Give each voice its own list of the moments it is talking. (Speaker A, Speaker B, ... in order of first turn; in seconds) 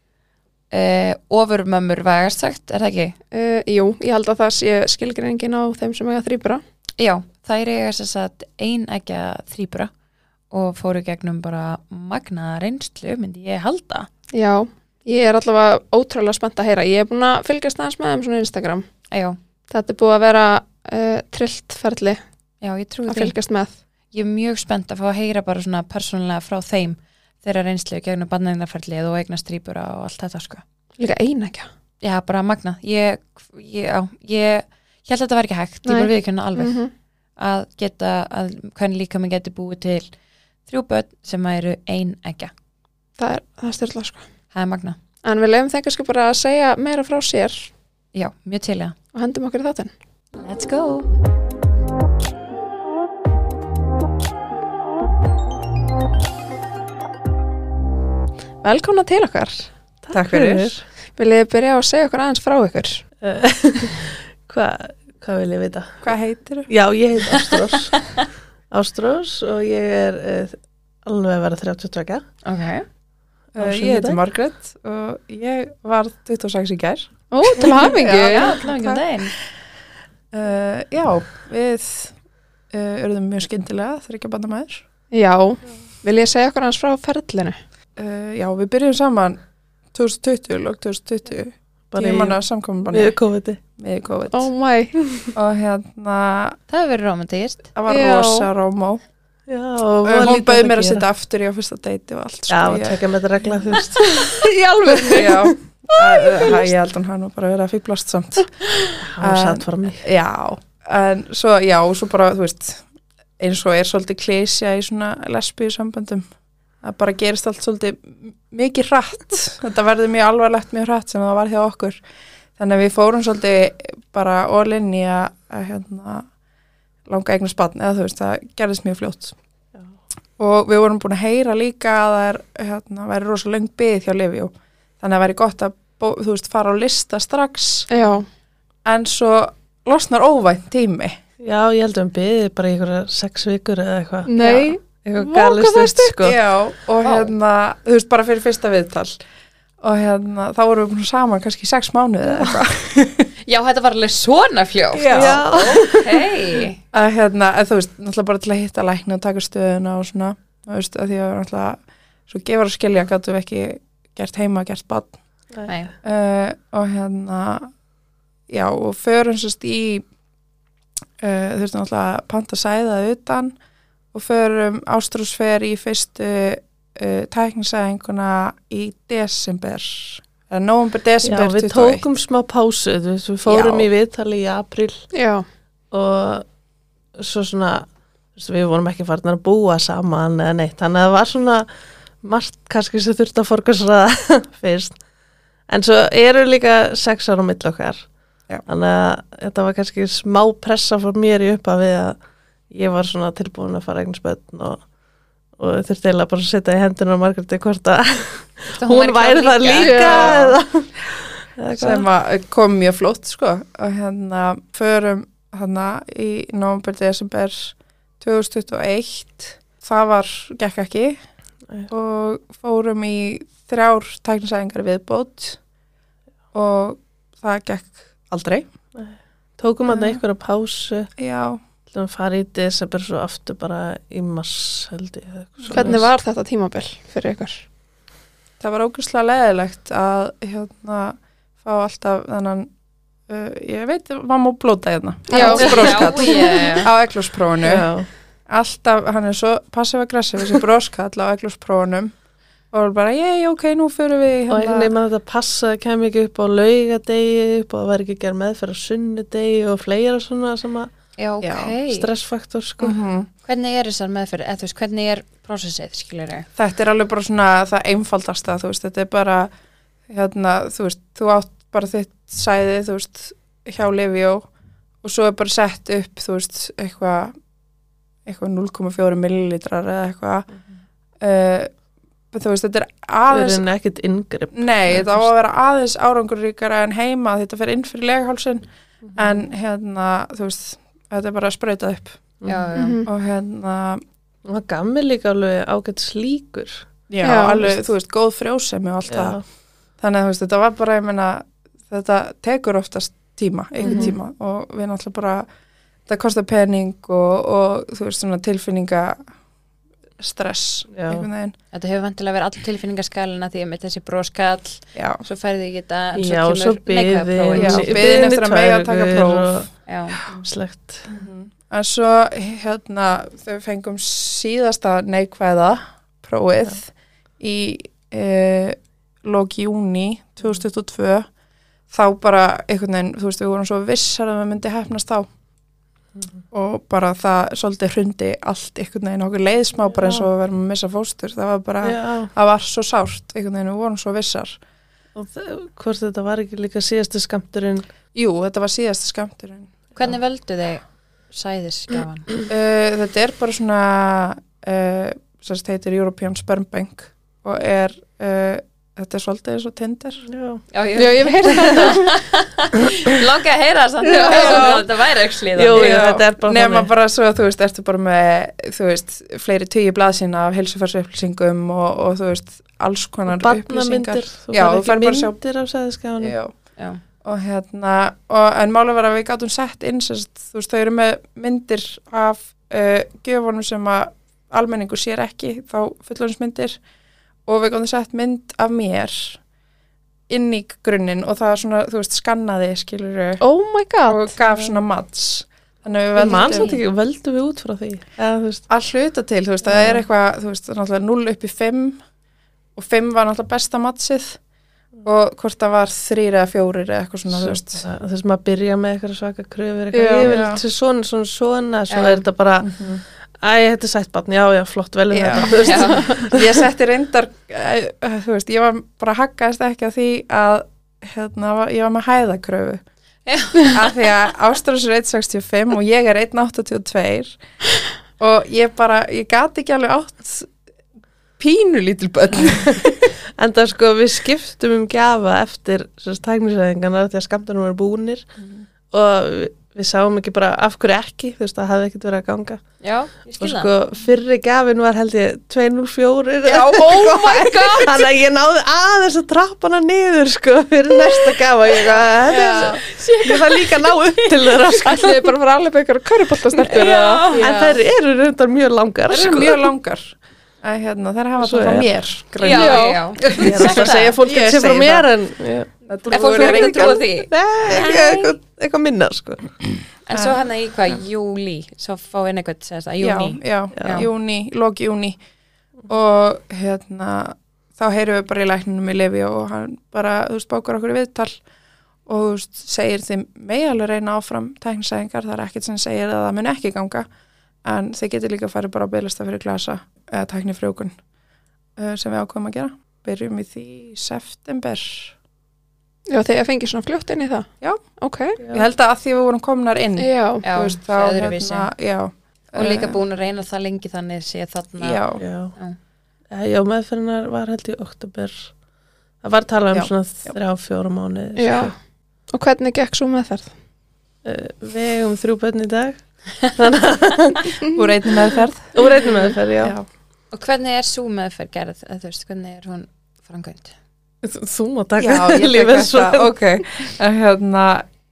Speaker A: 0.7-3.2, 7.0-9.9, 10.5-14.1, 19.1-19.4, 22.6-23.4, 24.1-30.6, 32.0-36.8, 37.4-40.1, 40.7-42.5, 44.5-45.0, 48.1-49.0, 50.4-51.1, 67.9-68.2, 72.5-72.8, 77.8-79.3, 96.7-97.7, 153.4-156.8, 208.8-210.3, 245.3-246.9, 261.2-262.1, 263.4-266.5, 292.5-293.0, 311.7-318.0, 319.9-320.2, 350.0-352.3, 360.7-366.0, 396.3-396.8, 411.9-412.2, 415.6-416.1, 423.3-423.9, 442.8-443.7, 453.0-453.4, 456.6-457.4, 462.4-464.1, 466.1-468.3, 470.1-474.1, 500.4-501.7, 502.6-505.1, 520.3-523.8
Speaker B: 3.3-6.6, 14.3-18.9, 19.7-22.2, 23.1-23.7, 31.0-31.7, 35.9-36.9, 43.2-44.2, 45.2-47.7, 49.1-49.9, 58.6-59.7, 61.2-63.0, 77.3-78.5, 85.1-87.6, 94.3-95.0, 97.9-98.5, 104.0-106.6, 137.9-138.3, 144.3-146.2, 185.1-185.5, 209.8-210.3, 235.7-237.6, 245.3-246.4, 292.8-293.1, 297.2-297.7, 303.8-304.1, 361.0-362.1, 364.2-364.8, 393.4-394.4, 409.9-410.3, 447.0-447.5, 452.4-452.7, 454.8-457.4, 462.5-463.1, 496.1-498.4, 500.0-500.4, 511.4-511.7, 512.3-513.5
Speaker C: 60.0-60.8, 63.2-66.1, 66.7-68.0, 68.7-72.2, 73.6-74.2, 91.9-93.6, 99.5-101.0, 102.5-104.2, 109.0-110.0, 141.4-144.3, 145.0-146.4, 155.1-156.3, 181.2-185.0, 185.9-186.5, 187.2-191.7, 192.2-195.0, 195.7-198.1, 198.7-202.2, 202.7-204.8, 205.6-212.1, 228.9-231.1, 231.9-236.1, 247.6-248.1, 254.5-260.9, 261.9-263.0, 283.3-285.3, 294.4-296.9, 299.1-299.4, 303.8-304.1, 310.9-311.3, 316.1-321.1, 341.8-342.3, 345.2-347.9, 360.3-360.6, 364.1-364.8, 365.6-366.9, 373.3-376.4, 396.2-398.6, 407.3-412.7, 413.4-416.6, 433.4-438.3, 438.9-442.6, 443.4-455.3, 457.4-459.6, 461.4-461.9, 463.4-469.5, 473.8-474.0, 498.4-498.7, 505.2-505.6, 506.3-508.5, 509.2-511.7, 514.2-517.6, 518.7-519.7, 524.2-526.3
Speaker D: 60.1-60.7, 66.0-66.7, 73.5-79.0, 80.3-82.1, 82.7-84.8, 88.0-89.4, 89.9-93.2, 93.8-94.5, 95.3-96.6, 97.8-99.0, 100.0-103.0, 105.2-108.6, 109.2-112.8, 113.4-116.3, 116.8-122.0, 122.6-126.3, 127.1-129.3, 130.4-137.9, 138.8-141.2, 144.4-144.7, 146.2-149.2, 149.8-153.3, 154.9-155.8, 156.9-165.2, 166.0-167.7, 168.5-170.0, 171.2-173.6, 174.1-182.1, 183.5-183.9, 211.7-221.2, 221.9-225.6, 226.5-228.7, 229.9-230.2, 231.2-231.6, 235.7-236.0, 238.6-242.7, 243.3-247.9, 248.5-252.1, 252.7-254.9, 261.4-261.7, 262.8-263.3, 266.6-269.5, 270.1-274.5, 275.0-277.4, 278.3-280.5, 281.2-281.7, 282.3-283.6, 284.5-292.2, 293.1-294.0, 297.1-299.4, 300.0-305.5, 306.1-309.2, 310.2-311.5, 314.9-315.2, 317.6-319.7, 321.1-326.9, 327.4-331.3, 331.9-335.3, 336.5-344.6, 348.1-349.7, 352.5-360.2, 361.0-361.8, 364.2-364.8, 365.7-375.4, 376.2-376.5, 377.2-386.8, 387.5-389.4, 390.3-393.4, 394.1-396.8, 398.7-402.0, 402.8-404.4, 405.0-407.9, 410.2-410.6, 412.6-413.0, 415.1-422.8, 423.6-427.4, 428.2-430.5, 431.4-433.1, 446.4-448.1, 452.3-452.8, 456.8-457.8, 459.1-465.1, 465.9-467.0, 470.1-470.4, 473.0-475.2, 475.9-481.4, 482.1-487.1, 487.6-491.0, 491.8-495.1, 498.4-503.0, 504.8-505.2, 509.7-510.4, 517.7-518.9, 519.6-519.9, 525.0-527.9